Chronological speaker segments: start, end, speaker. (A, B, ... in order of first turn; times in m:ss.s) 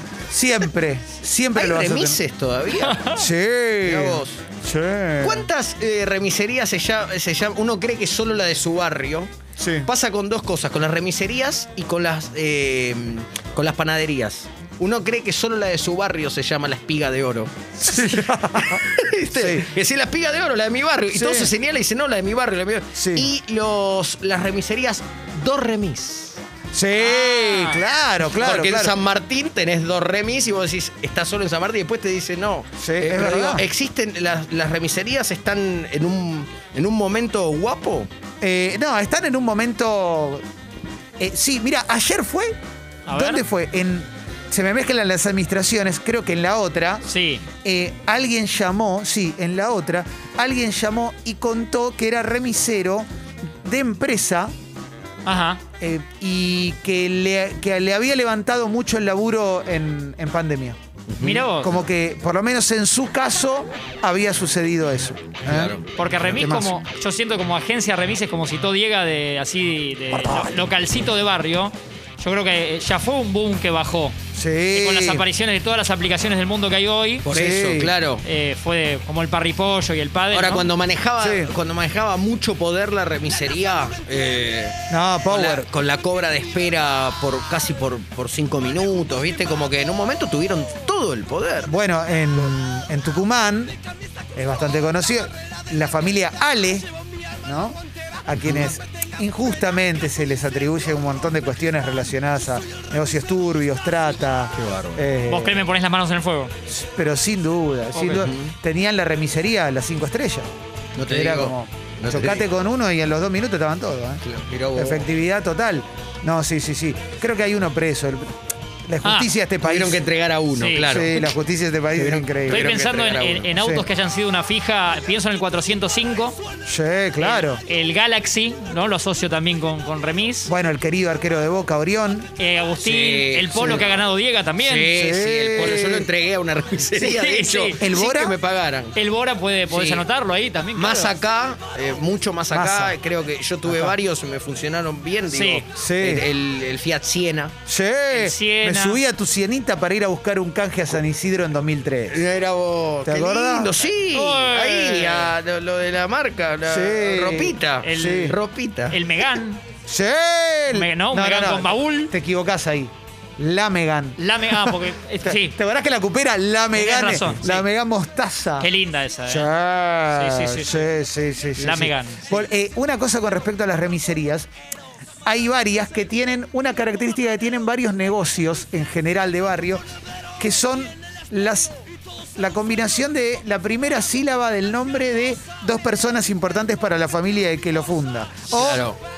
0:00.3-0:02.2 A
0:01.5-0:03.2 B
0:02.8-0:03.2 C
0:03.1-0:05.5 A
0:03.8-0:04.4 B
0:05.2-0:09.3 B
0:09.6-0:09.9 A
0:09.8-0:26.4 B
0:17.8-0:19.7 A
0:21.1-0:21.5 A
0:23.0-0:23.3 A
0:26.7-0:29.0 A
0:27.0-0:27.8 C
0:28.3-0:38.1 B
0:32.8-0:33.7 A
0:38.4-0:40.4 A
0:41.2-0:42.6 A
0:43.1-0:43.4 C
0:43.1-0:47.0 A
0:47.1-0:47.4 C
0:47.6-0:54.5 A
0:55.2-0:55.6 C
0:55.8-1:00.8 A
1:01.1-1:01.5 B
1:01.2-1:01.7 C
1:01.6-1:05.7 A
1:05.5-1:05.9 B
1:06.0-1:14.2 C
1:06.2-1:06.8 A
1:14.4-1:15.2 A
1:14.7-1:17.3 C
1:17.2-1:18.2 B
1:17.3-1:17.9 A
1:18.2-1:20.7 C
1:20.3-1:31.7 B
1:21.2-1:21.5 A
1:24.9-1:25.7 A
1:31.7-1:33.8 A
1:34.4-1:36.9 A
1:37.4-1:45.6 A
1:38.4-1:38.7 B
1:44.5-1:45.1 B
1:45.3-1:46.5 C
1:46.7-1:50.5 A
1:48.0-1:48.2 C
1:48.0-1:48.5 B
1:51.0-1:52.5 B
1:51.1-1:54.2 A
1:54.2-1:55.1 B
1:54.8-2:00.0 A
1:59.0-1:59.3 C
1:59.6-2:01.3 B
2:00.6-2:01.1 C
2:00.8-2:02.7 A
2:02.0-2:03.5 B
2:02.5-2:06.4 C
2:03.6-2:03.9 A
2:06.7-2:07.6 A
2:07.2-2:10.5 C
2:10.5-2:12.3 A
2:12.4-2:14.9 C
2:12.8-2:13.9 B
2:14.6-2:19.0 B
2:14.9-2:16.1 A
2:17.0-2:17.9 C
2:17.8-2:18.4 A
2:19.0-2:21.2 C
2:19.7-2:20.0 B
2:20.8-2:27.6 B
2:22.5-2:23.0 A
2:23.7-2:23.9 A
2:25.3-2:25.7 C
2:25.7-2:26.3 A
2:27.7-2:32.2 A
2:28.1-2:29.0 C
2:32.1-2:39.0 B
2:33.0-2:33.8 A
2:34.1-2:35.3 C
2:36.7-2:38.4 A
2:37.8-2:38.4 C
2:38.9-2:39.6 C
2:39.9-2:48.7 A
2:40.7-2:42.1 C
2:44.2-2:45.6 C
2:46.8-2:47.6 C
2:48.6-2:49.5 C
2:49.3-2:54.5 A
2:50.2-2:50.9 C
2:51.6-2:52.4 C
2:55.2-2:59.8 A
3:00.4-3:01.8 A
3:02.4-3:08.9 A
3:08.5-3:09.0 B